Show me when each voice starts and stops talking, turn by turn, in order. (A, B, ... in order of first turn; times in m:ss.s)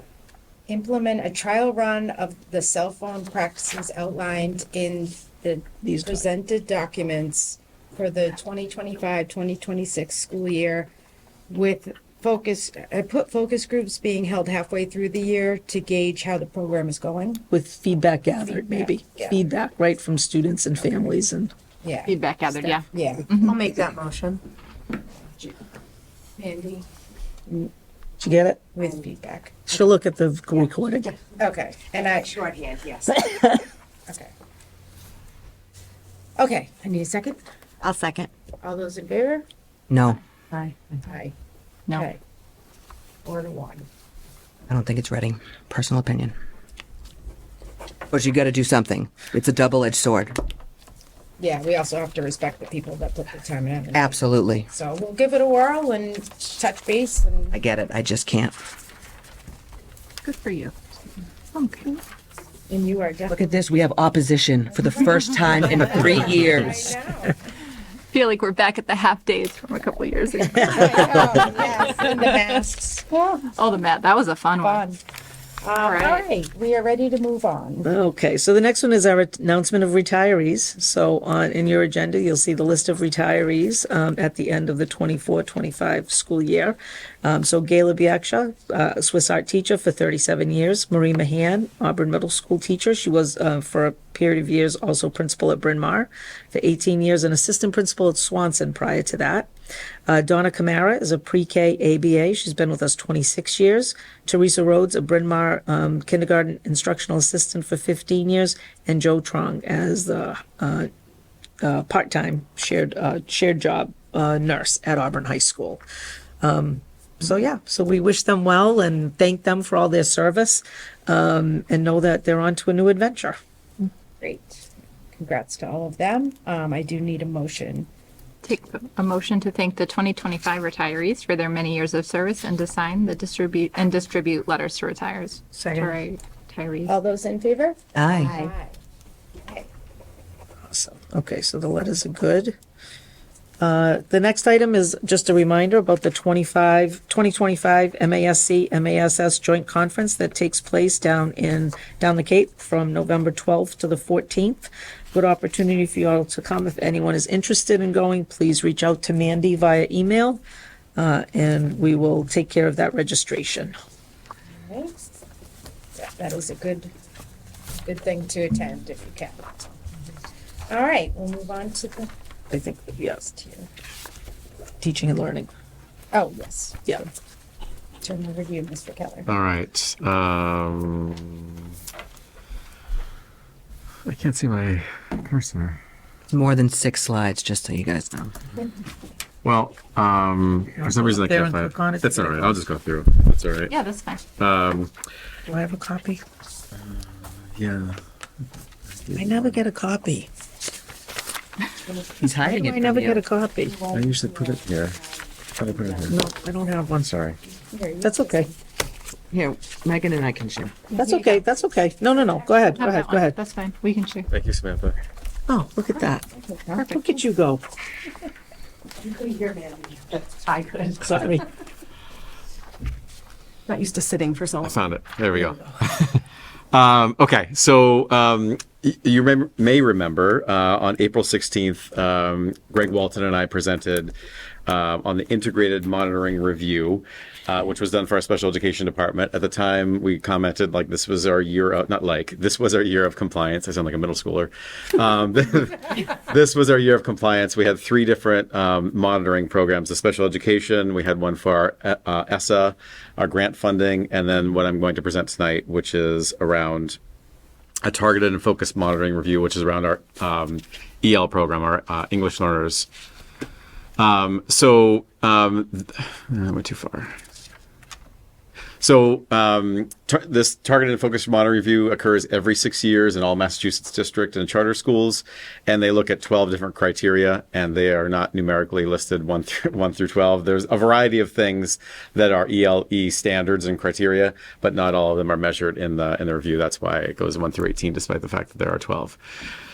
0:00.7-0:10.9 A
0:05.8-0:06.2 B
0:11.5-0:17.4 A
0:17.5-0:21.5 B
0:18.5-0:19.4 A
0:21.8-0:22.1 A
0:22.0-0:23.6 C
0:22.9-0:23.3 A
0:26.4-0:26.8 A
0:28.2-0:28.6 B
0:28.7-0:29.8 A
0:29.7-0:31.2 B
0:31.4-0:33.3 A
0:34.1-0:34.3 A
0:36.4-0:37.4 A
0:38.6-0:39.4 A
0:39.9-0:40.2 D
0:41.0-0:41.3 A
0:41.9-0:42.2 A
0:43.2-0:43.8 A
0:44.7-0:46.3 D
0:48.1-0:50.4 D
0:51.4-0:57.6 A
0:53.9-0:54.6 D
0:57.5-0:58.6 D
1:00.2-1:00.7 C
1:01.5-1:02.0 C
1:02.7-1:03.4 A
1:03.3-1:06.9 D
1:04.7-1:07.4 A
1:08.1-1:11.3 C
1:10.4-1:13.5 A
1:13.5-1:14.8 C
1:14.6-1:15.0 A
1:15.6-1:17.9 A
1:15.8-1:16.2 C
1:17.8-1:39.5 B
1:40.1-1:50.9 B
1:51.6-1:55.8 B
1:56.4-2:03.4 B
2:04.2-2:07.9 A
2:08.4-2:16.9 C
2:15.5-2:16.0 B
2:16.9-2:18.8 A
2:17.9-2:18.4 D
2:20.7-2:22.6 B
2:23.6-2:40.4 B
2:41.0-2:43.7 B
2:44.5-2:45.2 A
2:46.0-2:46.9 A
2:47.8-2:49.7 A
2:50.7-2:52.1 A
2:52.5-2:53.3 B
2:53.2-2:53.7 A
2:54.8-2:55.5 B
2:56.1-2:56.8 A
2:58.0-2:59.3 A
2:59.3-3:01.7 E
3:04.0-3:05.8 E
3:06.3-3:08.3 D
3:09.4-3:13.7 E
3:10.8-3:12.6 B
3:13.7-3:14.2 C
3:14.4-3:14.9 E
3:15.5-3:16.2 B
3:16.7-3:18.0 E
3:18.9-3:19.6 E
3:19.2-3:20.3 B
3:22.2-3:23.2 D
3:22.4-3:23.9 B
3:23.9-3:25.0 E
3:25.6-3:26.2 E
3:26.1-3:27.2 B
3:27.7-3:28.5 A
3:28.0-3:28.5 B
3:29.3-3:30.8 D
3:30.9-3:33.4 B
3:32.8-3:34.3 C
3:34.3-3:35.0 E
3:35.5-3:36.3 B
3:36.5-3:36.8 A
3:36.8-3:37.0 C
3:36.9-3:37.6 B
3:39.2-3:41.0 F
3:41.0-3:41.4 B
3:43.7-3:44.7 F
3:44.6-3:46.2 E
3:45.3-3:45.6 B
3:46.7-3:54.1 E
3:54.7-4:17.0 E
4:17.8-4:22.9 E
4:24.0-4:27.1 E
4:28.8-4:49.2 E